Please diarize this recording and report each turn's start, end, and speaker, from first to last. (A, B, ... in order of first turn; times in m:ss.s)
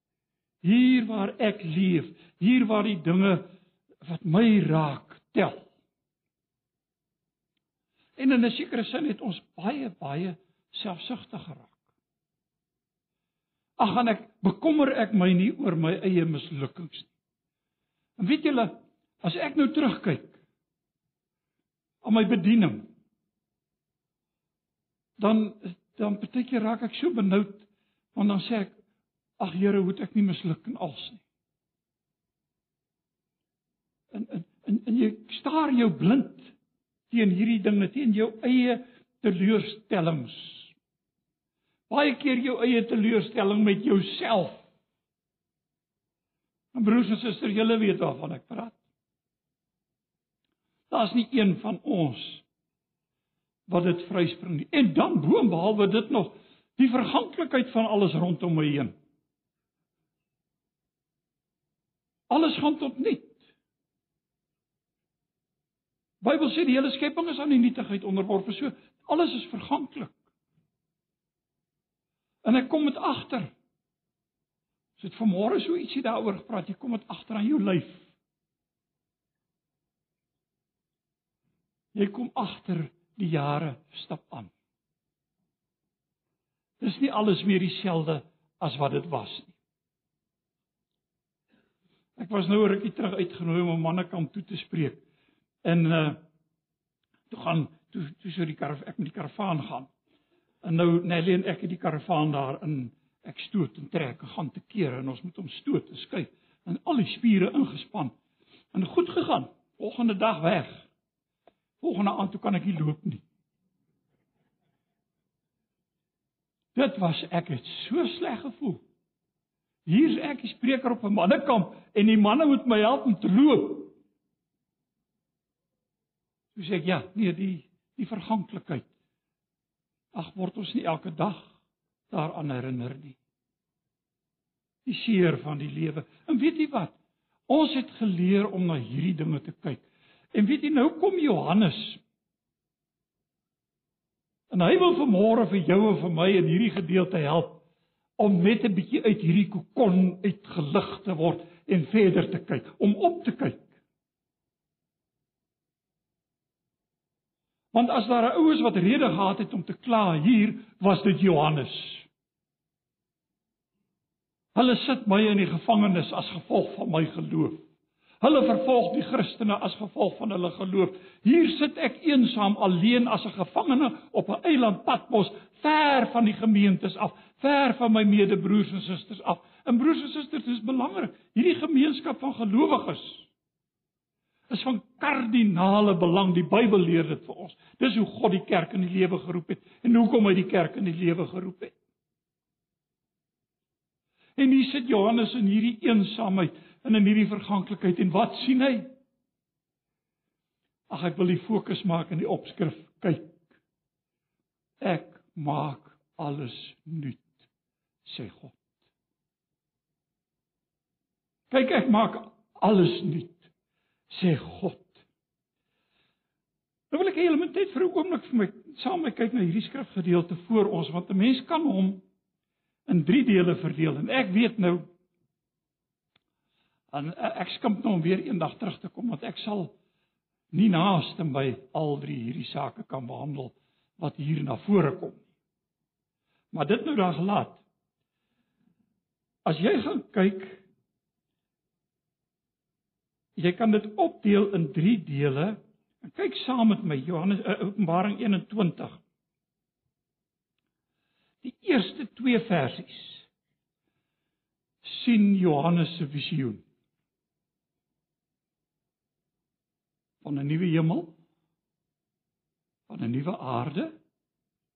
0:00.6-0:03.5 A
0:04.0-0:05.7 A
0:08.2-0:11.8 A
0:13.8-0:17.1 A
0:18.2-0:20.4 A
0:22.0-0:22.9 A
0:25.2-0:28.7 A
0:29.4-0:31.2 A
0:34.1-0:36.5 A
0:37.1-0:40.7 A
0:41.9-0:44.6 A
0:46.7-0:48.8 A
0:50.9-0:52.4 A
0:53.7-0:58.9 A
1:02.3-1:03.4 A
1:06.2-1:10.2 A
1:12.4-1:13.5 A
1:15.0-1:18.1 A
1:21.9-1:24.5 A
1:26.8-1:29.6 A
1:32.2-1:35.0 A
1:35.6-1:36.2 A
1:37.3-1:39.9 A
1:40.6-1:48.1 A
1:48.7-1:50.9 A
1:51.8-1:53.2 A
1:56.7-1:58.8 A
1:59.8-2:04.0 A
2:06.5-2:08.9 A
2:10.1-2:11.5 A
2:12.1-2:13.2 A
2:14.8-2:16.9 A
2:17.5-2:22.0 A
2:24.5-2:27.6 A
2:28.2-2:33.7 A
2:37.7-2:42.1 A
2:44.5-2:47.6 A
2:48.2-3:03.3 A
3:04.5-3:11.7 A
3:14.4-3:19.0 A
3:20.9-3:23.4 A
3:24.8-3:27.4 A
3:28.0-3:28.6 A
3:31.5-3:33.5 A
3:34.1-3:35.0 A
3:36.9-3:42.0 A
3:42.9-3:44.9 A
3:46.9-3:49.8 A
3:50.5-3:55.2 A
3:56.5-3:57.6 A
3:59.4-4:00.6 A
4:03.4-4:09.0 A
4:11.4-4:13.3 A
4:14.8-4:16.6 A
4:20.2-4:21.1 A
4:22.9-4:24.0 A